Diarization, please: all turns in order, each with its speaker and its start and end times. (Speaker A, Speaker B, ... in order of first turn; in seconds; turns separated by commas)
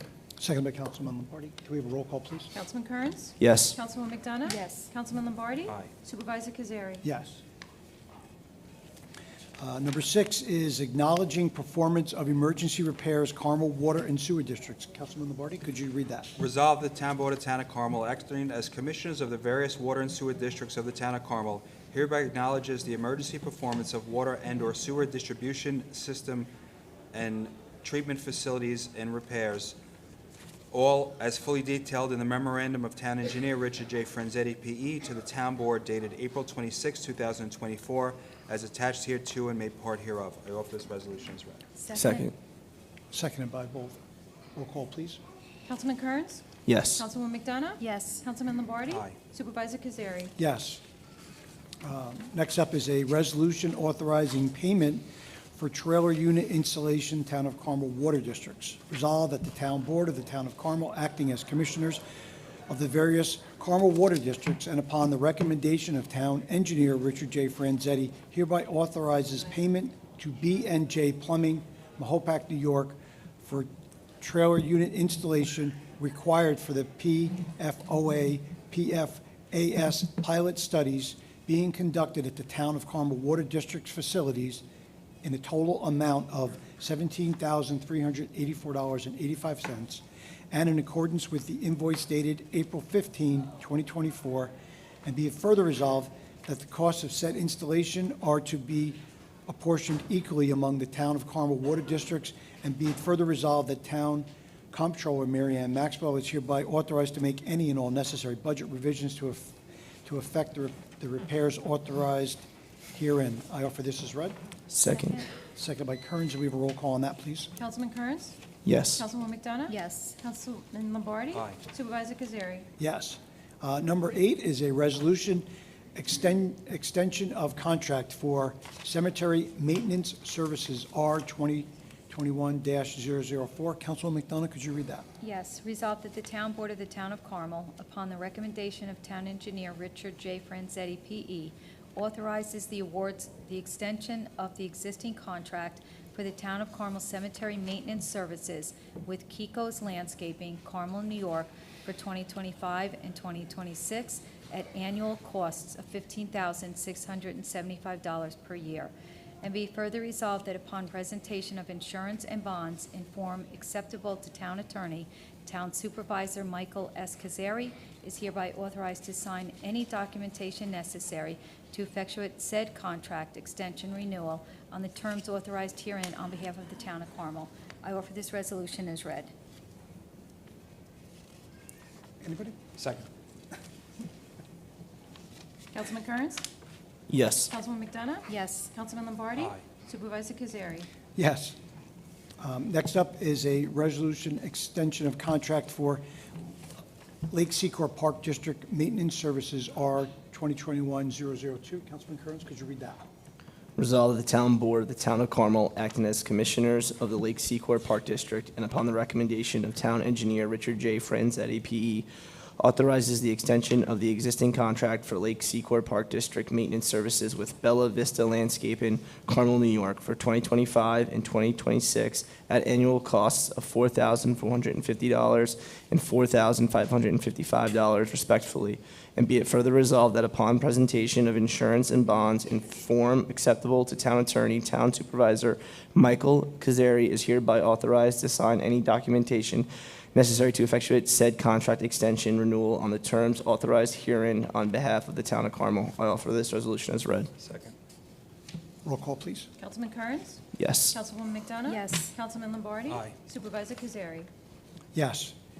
Speaker A: 0.4-2.5, Speaker B: 2.5-7.0, Speaker C: 3.4-3.8, Speaker D: 4.4-4.9, Speaker A: 7.0-7.4, Speaker A: 9.6-16.3, Speaker E: 16.4-26.5, Speaker E: 27.1-29.8, Speaker E: 30.7-41.6, Speaker D: 41.8-42.3, Speaker C: 41.9-42.3, Speaker A: 43.1-44.0, Speaker A: 44.5-45.2, Speaker B: 45.6-50.3, Speaker C: 46.6-47.0, Speaker D: 47.8-48.2, Speaker E: 48.9-49.1, Speaker A: 50.4-50.8, Speaker A: 51.8-62.0, Speaker A: 62.7-73.7, Speaker A: 74.2-84.6, Speaker A: 85.2-94.5, Speaker A: 95.0-114.4, Speaker C: 114.7-115.1, Speaker D: 114.8-115.3, Speaker A: 115.5-117.5, Speaker B: 117.5-118.4, Speaker C: 118.6-119.0, Speaker B: 119.0-122.7, Speaker D: 119.7-120.2, Speaker E: 121.3-121.6, Speaker A: 122.8-135.1, Speaker D: 135.2-179.3, Speaker A: 182.2-182.6, Speaker E: 182.8-183.1, Speaker B: 185.7-186.4, Speaker C: 187.1-187.5, Speaker B: 187.5-190.9, Speaker D: 188.3-188.7, Speaker E: 189.4-189.6, Speaker A: 191.2-191.6, Speaker A: 192.4-196.0, Speaker A: 197.3-203.0, Speaker C: 203.8-212.1, Speaker C: 212.6-247.3, Speaker E: 247.4-247.7, Speaker A: 248.8-249.5, Speaker B: 249.6-254.3, Speaker C: 250.6-250.9, Speaker D: 251.7-252.1, Speaker E: 252.9-253.2, Speaker A: 254.9-255.3